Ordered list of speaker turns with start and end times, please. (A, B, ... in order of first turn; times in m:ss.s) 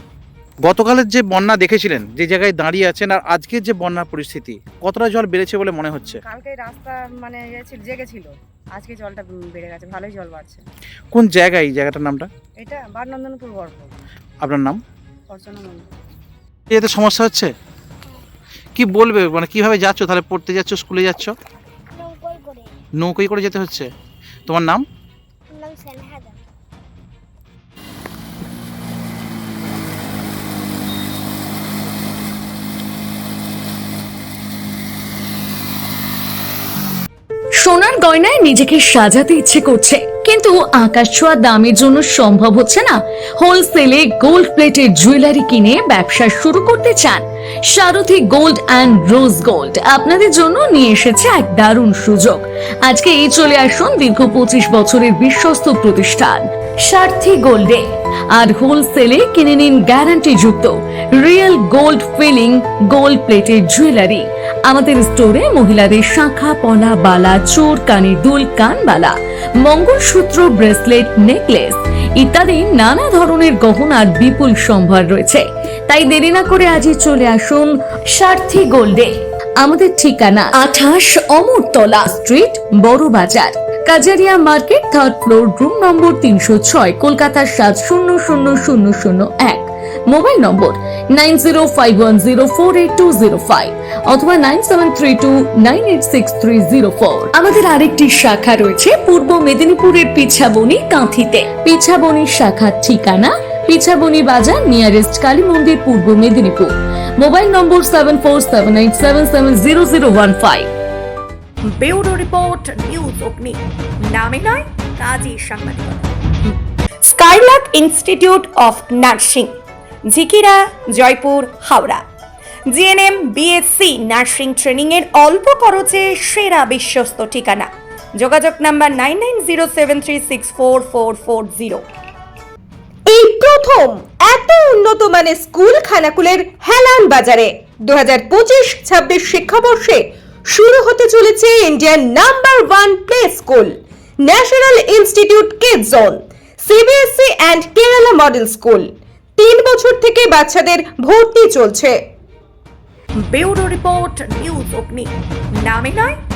0:00.6-0:06.2 A
0:06.0-0:10.6 B
0:11.1-0:12.3 A
0:12.6-0:13.9 B
0:14.4-0:14.8 A
0:15.3-0:15.9 B
0:16.7-0:17.5 A
0:18.8-0:21.3 A
0:21.9-0:22.7 C
0:23.0-0:23.9 A
0:24.5-0:24.8 A
0:25.5-0:26.4 C
0:37.6-1:50.7 D
1:51.8-1:53.5 E
1:54.1-1:55.8 E
1:57.5-1:59.4 E
2:00.1-2:01.9 E
2:02.7-2:07.6 E
2:08.2-2:11.8 E
2:13.0-2:32.0 C
2:33.3-2:35.0 E
2:35.7-2:36.0 E